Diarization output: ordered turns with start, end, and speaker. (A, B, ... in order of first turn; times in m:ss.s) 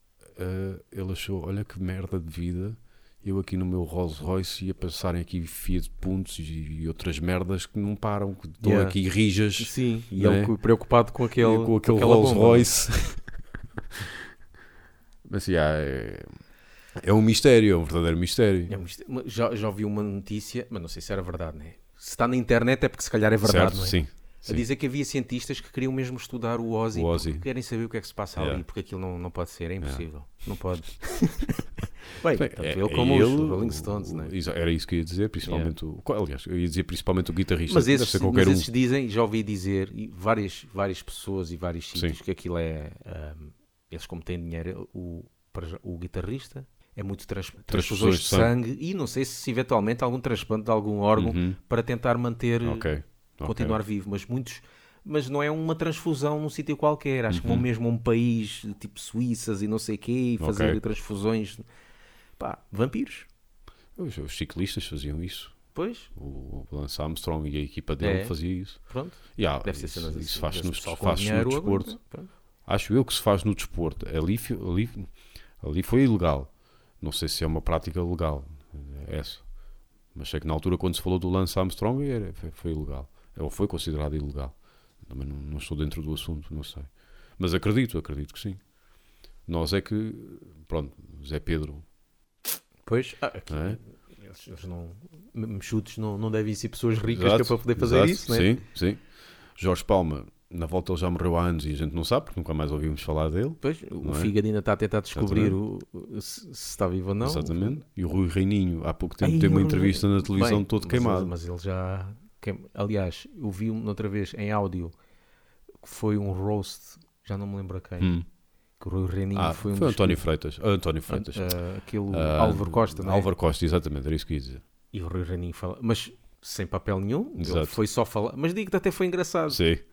0:00.3-0:10.6 A
0:08.6-0:09.0 B
0:09.6-0:12.7 B
0:11.4-0:13.3 A
0:15.3-0:16.3 A
0:17.0-0:18.7 A
0:18.7-0:34.3 B
0:23.4-0:24.6 A
0:26.9-0:27.4 A
0:28.4-0:28.6 A
0:32.3-0:38.7 A
0:35.4-0:35.7 B
0:37.7-0:52.9 B
0:47.7-0:48.5 A
0:51.2-0:51.6 A
0:52.6-0:53.8 A
0:53.4-1:01.6 B
0:57.3-0:57.6 A
1:00.4-1:00.8 A
1:02.4-1:03.3 B
1:04.0-1:12.0 A
1:05.7-1:06.1 B
1:08.0-1:12.3 B
1:12.6-1:15.1 A
1:15.6-1:19.5 A
1:20.1-1:28.6 A
1:29.5-1:31.8 A
1:32.8-1:38.5 B
1:33.5-1:33.8 A
1:37.1-1:44.3 A
1:43.6-1:47.8 B
1:45.1-1:45.6 A
1:47.2-1:51.3 A
1:49.2-1:54.9 B
1:55.8-1:58.2 B
1:58.0-1:58.2 A
1:58.8-2:00.2 B
1:59.3-2:01.6 A
2:01.1-2:03.3 B
2:02.1-2:04.6 A
2:04.9-2:09.6 B
2:07.4-2:07.8 A
2:09.5-2:09.8 A